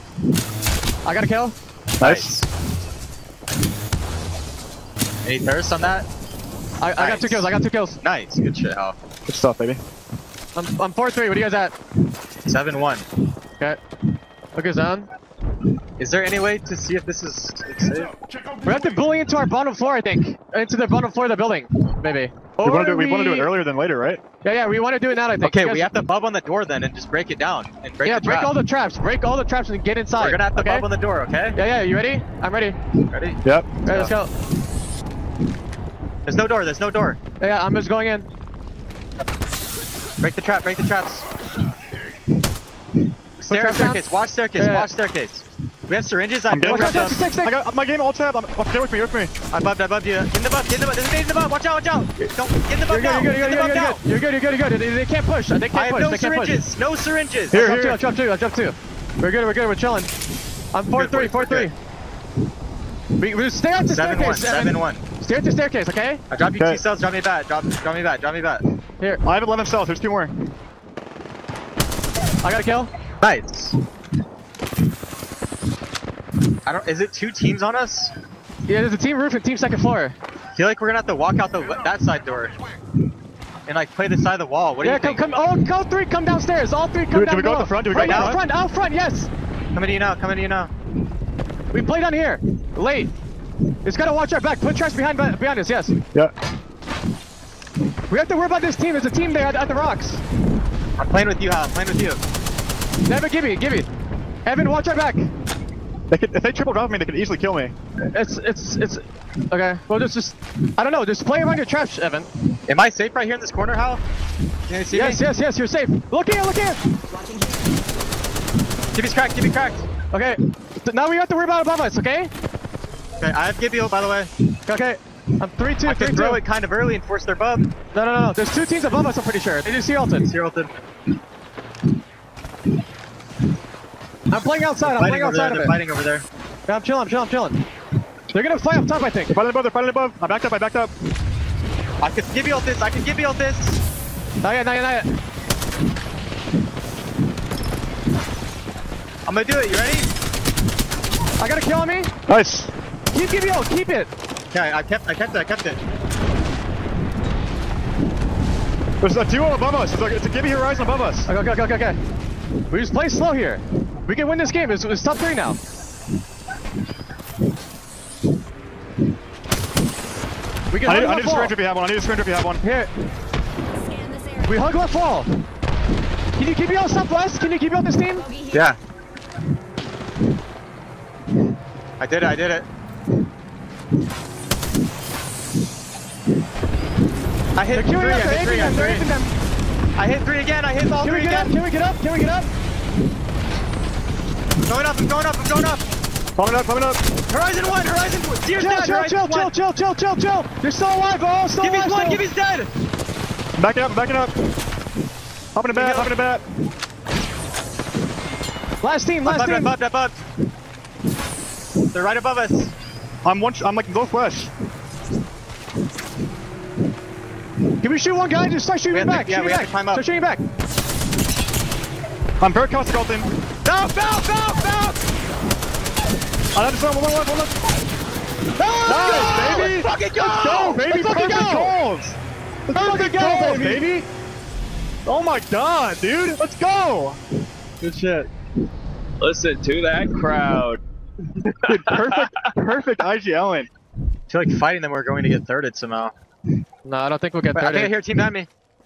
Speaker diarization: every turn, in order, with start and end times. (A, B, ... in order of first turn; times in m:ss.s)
0:01.0-0:01.6 A
0:02.0-0:02.4 B
0:02.0-0:02.5 C
0:05.2-0:06.1 C
0:06.8-0:08.0 A
0:07.0-0:09.0 C
0:09.3-0:09.8 B
0:10.6-0:11.7 A
0:12.5-0:13.0 C
0:14.6-0:15.1 A
0:16.0-0:18.2 C
0:18.6-0:23.6 A
0:22.6-0:24.2 B
0:24.4-0:25.9 A
0:25.4-0:28.6 C
0:28.0-0:30.9 A
0:30.2-0:31.6 C
0:31.6-0:32.8 A
0:33.1-0:34.1 C
0:33.4-0:33.7 B
0:33.8-0:34.3 A
0:36.3-0:37.2 C
0:37.4-0:38.3 A
0:40.2-0:41.2 C
0:43.4-0:47.2 C
0:43.5-0:44.0 A
0:44.6-0:44.9 A
0:46.5-0:49.3 B
0:46.6-0:47.6 A
0:49.5-0:54.0 C
0:52.9-0:56.6 A
0:55.7-0:57.6 C
0:57.5-0:58.0 B
0:57.5-1:00.1 A
1:00.7-1:01.7 A
1:00.9-1:01.7 C
1:03.2-1:06.2 A
1:03.8-1:05.0 C
1:06.3-1:08.6 C
1:09.2-1:10.5 B
1:12.4-1:12.9 A
1:13.2-1:13.8 C
1:16.7-1:18.1 C
1:18.7-1:20.2 A
1:20.6-1:22.6 C
1:23.7-1:25.2 C
1:24.8-1:29.3 A
1:27.1-1:28.4 B
1:27.9-1:28.4 C
1:29.7-1:30.7 C
1:31.7-1:33.1 A
1:33.8-1:36.0 A
1:38.1-1:40.2 A
1:41.0-1:42.2 C
1:43.0-1:43.9 A
1:44.5-1:45.3 A
1:46.1-1:47.7 B
1:48.1-1:52.3 A
1:52.7-1:54.0 C
1:54.7-1:55.2 C
1:54.9-1:56.8 A
1:58.9-1:59.9 C
2:00.1-2:02.3 A
2:03.2-2:04.3 C
2:04.7-2:06.4 A
2:05.8-2:07.7 C
2:07.9-2:10.3 A
2:10.2-2:10.8 C
2:14.3-2:15.8 A
2:14.8-2:16.2 C
2:16.7-2:17.6 A
2:18.3-2:19.4 A
2:19.3-2:20.9 B
2:22.0-2:23.8 C
2:24.4-2:25.1 A
2:29.3-2:30.1 C
2:31.4-2:32.1 A
2:32.3-2:32.7 B
2:33.1-2:34.1 A
2:34.5-2:35.8 C
2:39.0-2:41.3 B
2:41.3-2:42.0 A
2:42.7-2:45.6 A
2:50.7-2:51.6 A
2:50.8-2:52.6 B
2:52.6-2:52.9 A
2:54.4-2:55.3 A
2:56.4-2:58.3 A
2:58.5-2:58.8 C
3:02.0-3:02.7 C
3:07.6-3:09.1 C
3:07.7-3:09.4 A
3:10.0-3:11.5 C
3:11.0-3:12.5 A
3:14.7-3:15.8 C
3:16.4-3:17.0 B
3:17.3-3:19.5 C
3:18.6-3:22.2 A
3:21.6-3:22.7 C
3:23.6-3:24.3 B
3:25.6-3:26.4 B
3:25.7-3:26.1 C
3:28.8-3:29.7 A
3:29.3-3:30.2 C
3:31.9-3:32.7 C
3:33.2-3:34.5 B
3:37.8-3:40.4 A
3:38.9-3:40.0 C
3:42.4-3:43.3 B
3:43.6-3:45.0 C
3:46.6-3:47.5 B
3:48.6-3:49.6 A
3:48.9-3:52.2 B
3:49.2-3:50.8 C
3:50.8-3:51.8 A
3:52.7-3:54.0 B
3:52.7-3:53.9 A
3:55.1-3:57.2 B
3:57.8-3:58.3 C
3:59.2-4:00.8 D
4:01.6-4:02.0 D
4:01.7-4:03.7 B
4:04.3-4:06.1 C
4:06.8-4:07.9 A
4:07.5-4:08.5 C